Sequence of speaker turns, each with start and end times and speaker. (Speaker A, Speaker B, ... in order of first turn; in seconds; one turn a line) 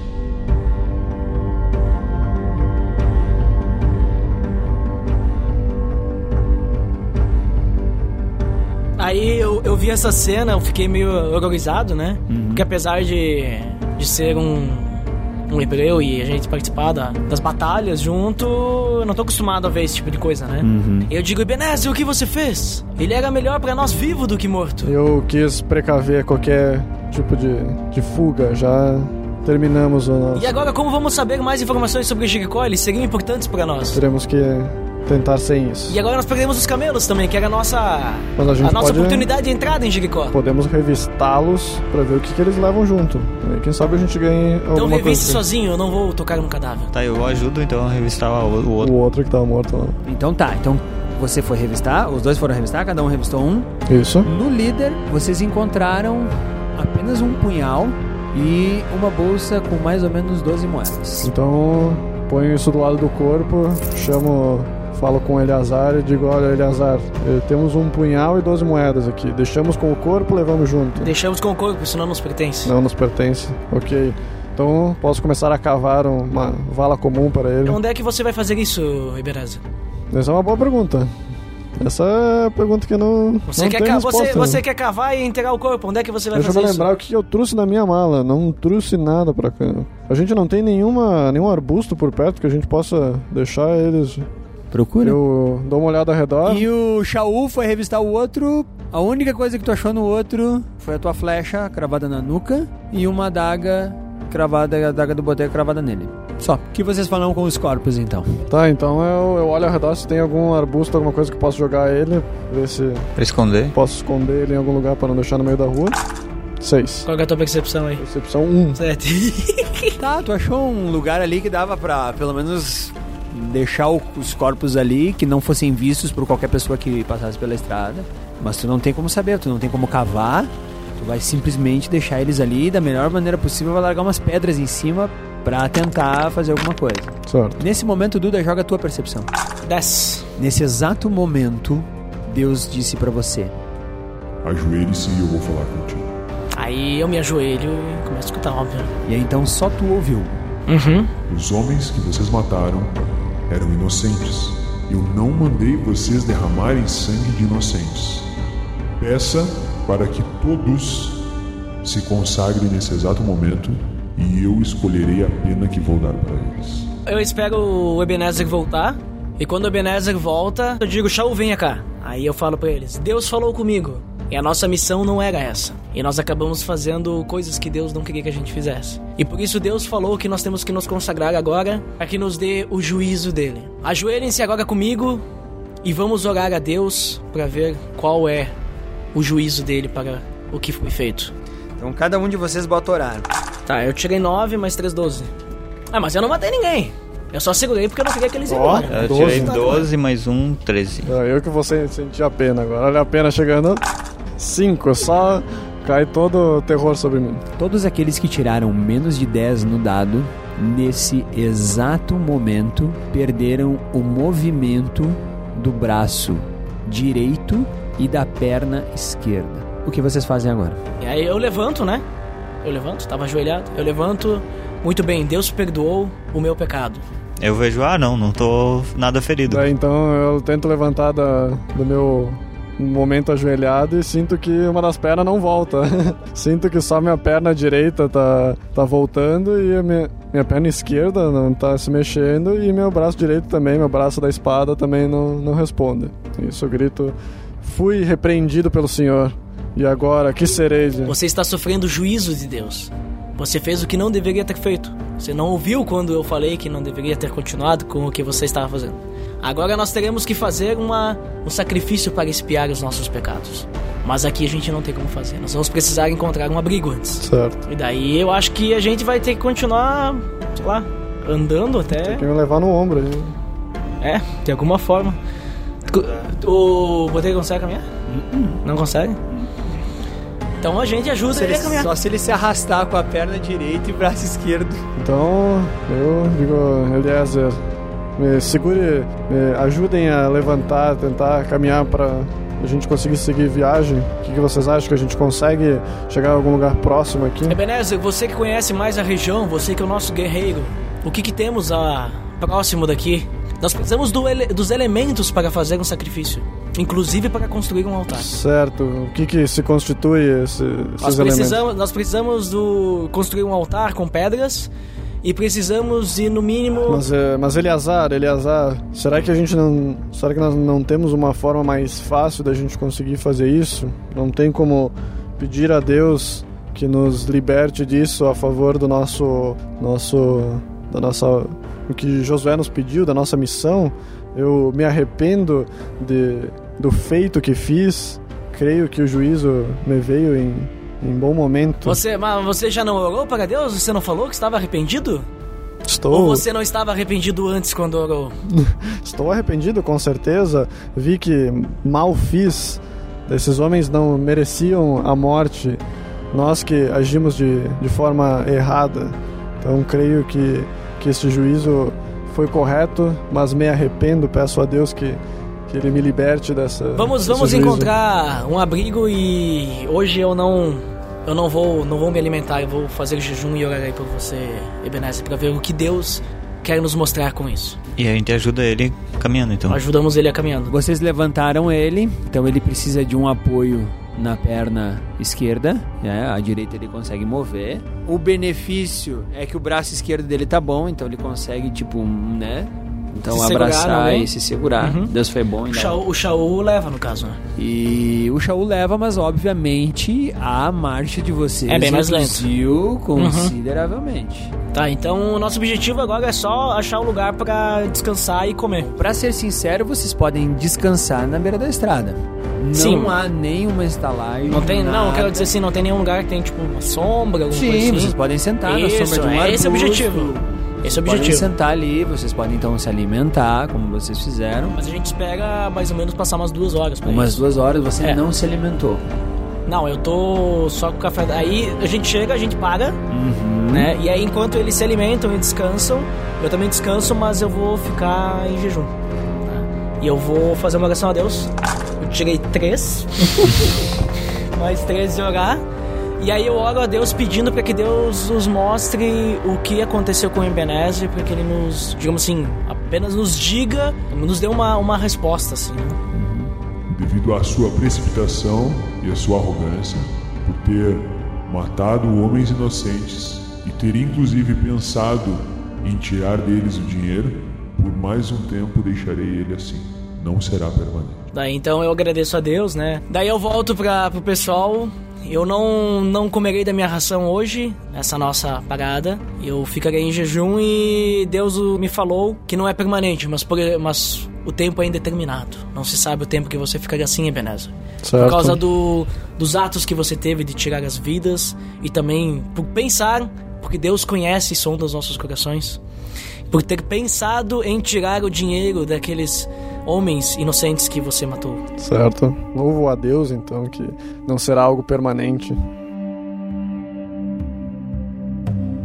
Speaker A: 9.0-24.9
Speaker B: 12.3-12.7
Speaker B: 20.6-21.1
Speaker C: 24.9-30.5
Speaker A: 30.4-34.0
Speaker C: 33.9-36.0
Speaker A: 35.9-40.4
Speaker C: 38.4-39.3
Speaker C: 40.3-45.4
Speaker A: 44.7-46.9
Speaker D: 46.9-48.9
Speaker C: 48.8-50.0
Speaker B: 50.0-53.7
Speaker C: 53.9-54.3
Speaker B: 54.2-61.3
Speaker C: 61.2-71.1
Speaker A: 71.0-72.7
Speaker C: 72.7-77.8
Speaker A: 77.7-79.6
Speaker C: 80.1-81.1
Speaker C: 81.8-84.6
Speaker A: 83.5-86.9
Speaker C: 86.3-94.3
Speaker B: 94.7-95.2
Speaker C: 95.0-96.7
Speaker B: 96.5-108.4
Speaker C: 108.5-113.1
Speaker D: 113.2-113.8
Speaker C: 113.7-116.0
Speaker C: 116.6-117.1
Speaker A: 117.0-118.0
Speaker C: 118.0-118.8
Speaker A: 118.8-120.0
Speaker B: 120.0-139.3
Speaker C: 137.3-137.6
Speaker A: 139.7-140.3
Speaker B: 140.4-143.5
Speaker E: 144.4-146.1
Speaker A: 146.6-148.9
Speaker B: 149.1-150.4
Speaker A: 150.7-151.1
Speaker E: 151.3-152.9
Speaker E: 153.5-158.3
Speaker E: 159.0-161.3
Speaker E: 161.8-166.9
Speaker A: 167.1-185.2
Speaker A: 185.8-188.5
Speaker A: 189.1-191.3
Speaker B: 191.8-193.3
Speaker A: 193.7-195.3
Speaker A: 195.9-199.9
Speaker C: 198.5-199.8
Speaker D: 198.9-201.1
Speaker C: 201.1-203.8
Speaker C: 204.4-207.4
Speaker B: 207.6-220.8
Speaker A: 221.0-222.0
Speaker A: 222.6-227.0
Speaker D: 227.4-229.7
Speaker C: 229.5-251.1
Speaker A: 251.1-272.2
Speaker C: 267.2-267.6
Speaker C: 272.1-273.3
Speaker A: 274.0-275.2
Speaker A: 275.9-277.9
Speaker B: 278.1-278.6
Speaker A: 278.6-279.2
Speaker A: 280.6-281.9
Speaker B: 281.3-284.9
Speaker C: 285.0-287.6
Speaker C: 288.2-297.6
Speaker A: 297.5-308.3
Speaker C: 308.1-311.6
Speaker A: 311.0-314.7
Speaker A: 315.2-317.0
Speaker C: 316.9-342.0
Speaker A: 341.8-345.3
Speaker C: 345.9-346.4
Speaker A: 346.1-348.4
Speaker C: 348.5-355.8
Speaker C: 356.3-367.9
Speaker A: 366.9-377.8
Speaker D: 378.0-379.8
Speaker A: 379.7-380.7
Speaker B: 380.7-396.0
Speaker A: 393.3-395.1
Speaker A: 395.7-397.4
Speaker B: 397.6-404.5
Speaker A: 401.7-402.5
Speaker A: 403.2-403.5
Speaker A: 404.7-408.9
Speaker B: 408.8-415.5
Speaker A: 412.7-413.1
Speaker A: 414.5-421.5
Speaker B: 417.5-424.8
Speaker A: 424.7-427.4
Speaker B: 427.1-429.0
Speaker A: 429.7-433.0
Speaker B: 433.1-433.9
Speaker A: 433.7-438.9
Speaker A: 439.5-443.8
Speaker A: 444.5-445.6
Speaker A: 446.2-456.0
Speaker B: 456.1-456.5
Speaker E: 456.9-471.2
Speaker A: 471.3-495.8
Speaker C: 488.0-488.6
Speaker A: 496.5-501.6
Speaker C: 501.8-505.6